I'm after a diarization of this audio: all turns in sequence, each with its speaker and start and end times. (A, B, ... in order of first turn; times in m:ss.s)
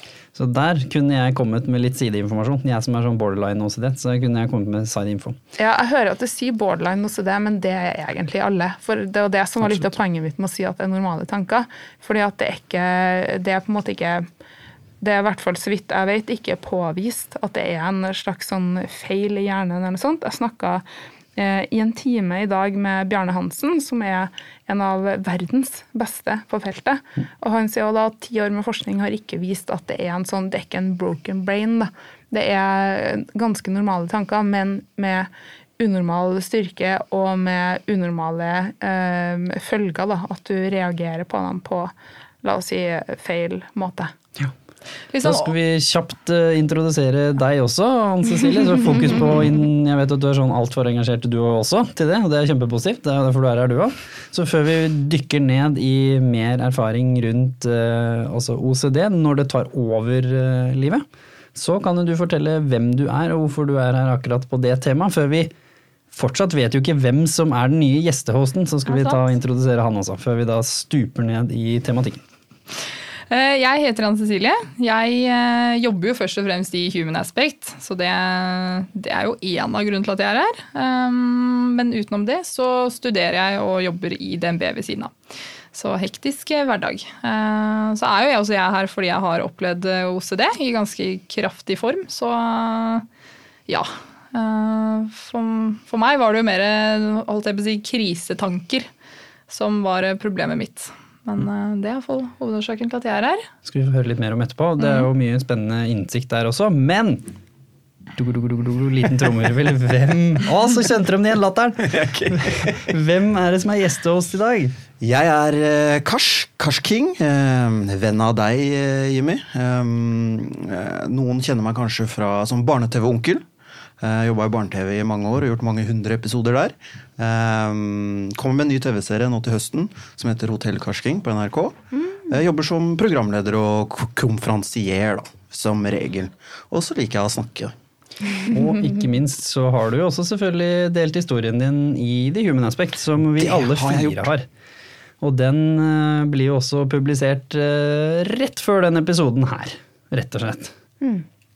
0:00.3-0:05.4 A
0:05.6-0:14.2 B
0:09.6-0:09.9 A
0:15.0-0:20.8 B
0:21.4-0:44.1 B
0:45.1-0:45.5 C
0:45.2-1:05.5 A
1:06.1-1:12.2 A
1:08.9-1:09.2 C
1:13.3-1:25.1 C
1:25.7-1:33.0 C
1:33.7-1:38.9 C
1:39.5-1:43.5 C
1:43.7-1:47.3 A
1:44.8-1:45.1 C
1:48.1-1:54.8 A
1:51.8-1:52.9 D
1:55.0-2:03.4 D
2:04.0-2:17.7 D
2:18.5-2:24.5 A
2:23.4-2:24.3 D
2:25.2-2:30.7 A